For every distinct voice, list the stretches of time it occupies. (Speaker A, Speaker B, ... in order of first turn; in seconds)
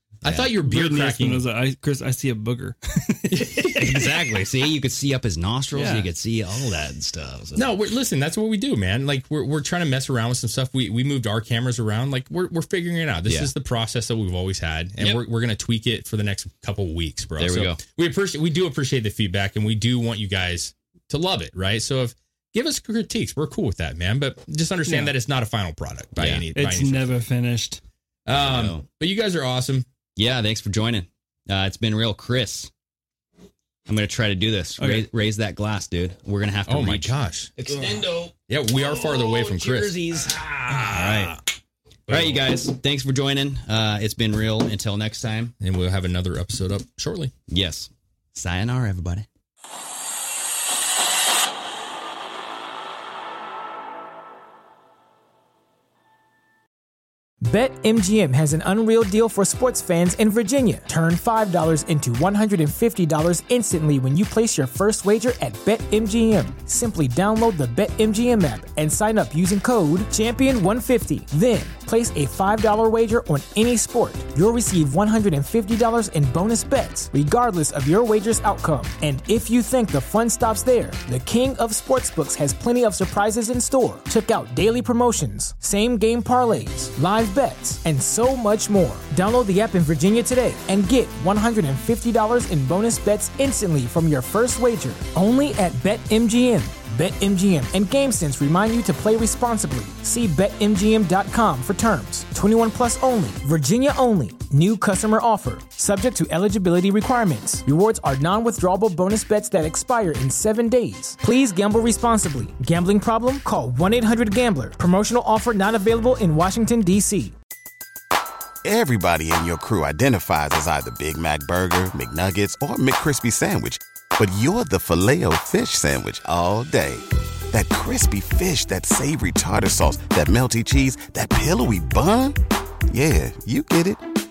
Speaker A: 0.2-1.5, 3.3-4.1, 7.5-27.1, 28.3-29.9, 36.7-41.4, 42.1-42.4, 45.6-47.3
Speaker B: 0.6-3.7, 5.7-6.1, 24.9-25.1, 26.5-27.8, 34.8-35.1
Speaker C: 3.7-7.7, 17.4-17.8, 26.2-26.5, 28.4-28.8, 30.2-32.7, 33.9-41.4, 42.1-45.5, 47.5-49.3
Speaker D: 57.4-117.3
Speaker E: 118.6-132.4, 132.9-134.0